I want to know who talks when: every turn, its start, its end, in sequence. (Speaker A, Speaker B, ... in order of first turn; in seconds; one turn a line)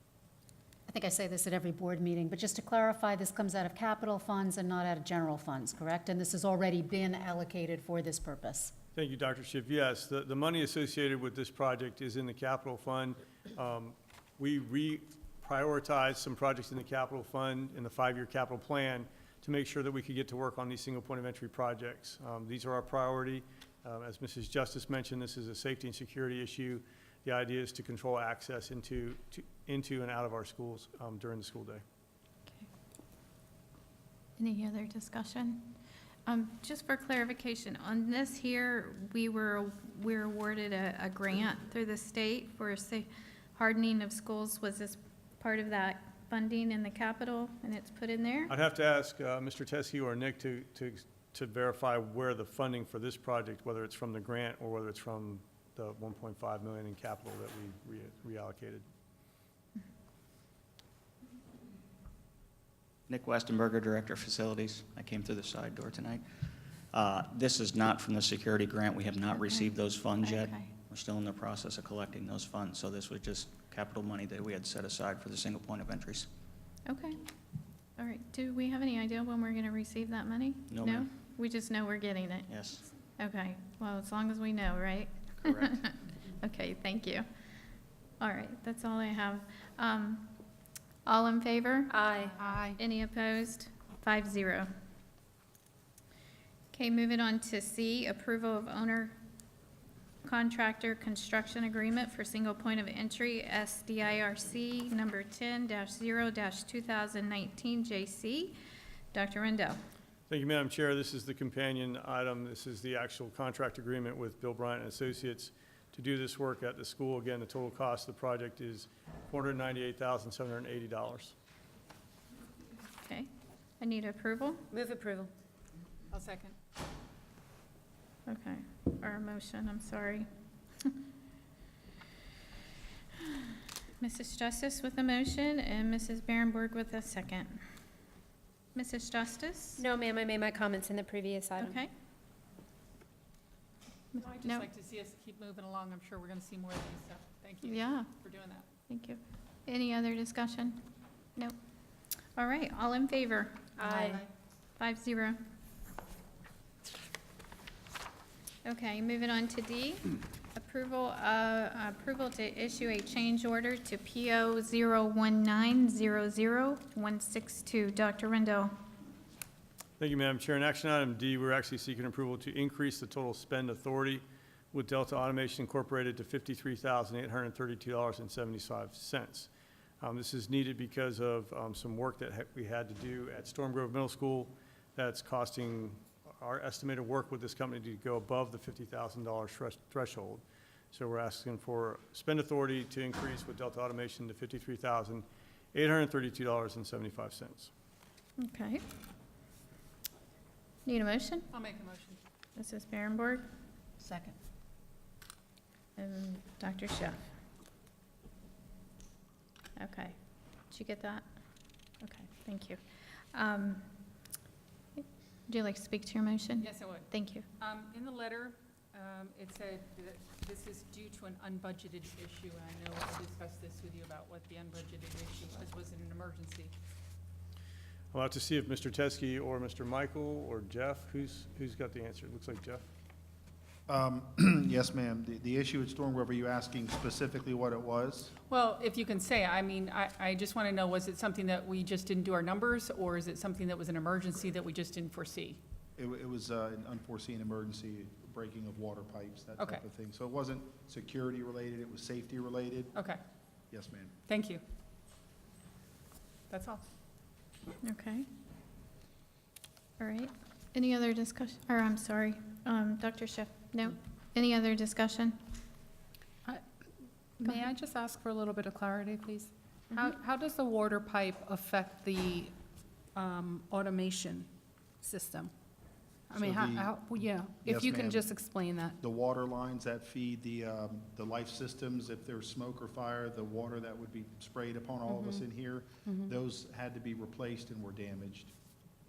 Speaker A: 0.9-8.7
Speaker B: 8.9-31.8
Speaker C: 34.4-35.7
Speaker C: 36.3-48.6
Speaker B: 48.5-58.9
Speaker D: 63.1-76.3
Speaker C: 69.3-69.7
Speaker C: 70.2-70.7
Speaker C: 76.9-77.2
Speaker C: 78.0-82.5
Speaker D: 80.7-81.1
Speaker D: 82.5-82.9
Speaker C: 83.2-87.2
Speaker D: 85.5-85.7
Speaker C: 88.2-90.4
Speaker C: 91.0-92.0
Speaker E: 91.9-92.4
Speaker F: 92.4-92.8
Speaker C: 92.8-94.7
Speaker C: 96.7-99.2
Speaker C: 100.2-108.5
Speaker C: 109.1-109.8
Speaker B: 110.3-121.3
Speaker C: 123.0-123.3
Speaker C: 123.8-124.6
Speaker E: 124.7-125.3
Speaker G: 126.1-126.5
Speaker C: 128.3-130.3
Speaker C: 134.0-137.6
Speaker C: 138.8-139.8
Speaker E: 139.8-141.8
Speaker C: 141.6-141.9
Speaker C: 144.2-144.7
Speaker G: 144.2-148.7
Speaker C: 147.6-148.1
Speaker C: 148.9-150.8
Speaker C: 152.3-153.8
Speaker E: 153.8-154.2
Speaker G: 153.8-154.3
Speaker C: 154.8-155.4
Speaker C: 158.7-168.7
Speaker B: 170.0-179.5
Speaker B: 180.0-197.7
Speaker C: 198.4-198.8
Speaker C: 200.9-201.5
Speaker G: 201.5-202.2
Speaker C: 202.6-203.5
Speaker A: 204.0-204.3
Speaker C: 206.0-207.2
Speaker C: 209.8-210.2
Speaker C: 210.7-211.2
Speaker C: 212.0-212.8
Speaker C: 213.3-213.9
Speaker C: 215.0-217.5
Speaker G: 216.6-217.1
Speaker G: 217.6-226.7
Speaker B: 228.1-232.8
Speaker H: 233.9-238.3
Speaker G: 238.5-245.6
Speaker H: 246.0-252.9
Speaker G: 252.9-253.2
Speaker H: 253.7-254.1
Speaker G: 254.3-254.6
Speaker G: 256.5-256.8
Speaker C: 257.8-258.3
Speaker C: 260.0-265.4
Speaker F: 267.4-272.5
Speaker F: 273.1-274.5
Speaker F: 275.0-275.5
Speaker F: 276.3-279.0
Speaker H: 276.3-277.0
Speaker H: 277.6-278.3
Speaker H: 279.0-288.5
Speaker F: 285.1-285.4
Speaker F: 286.1-286.3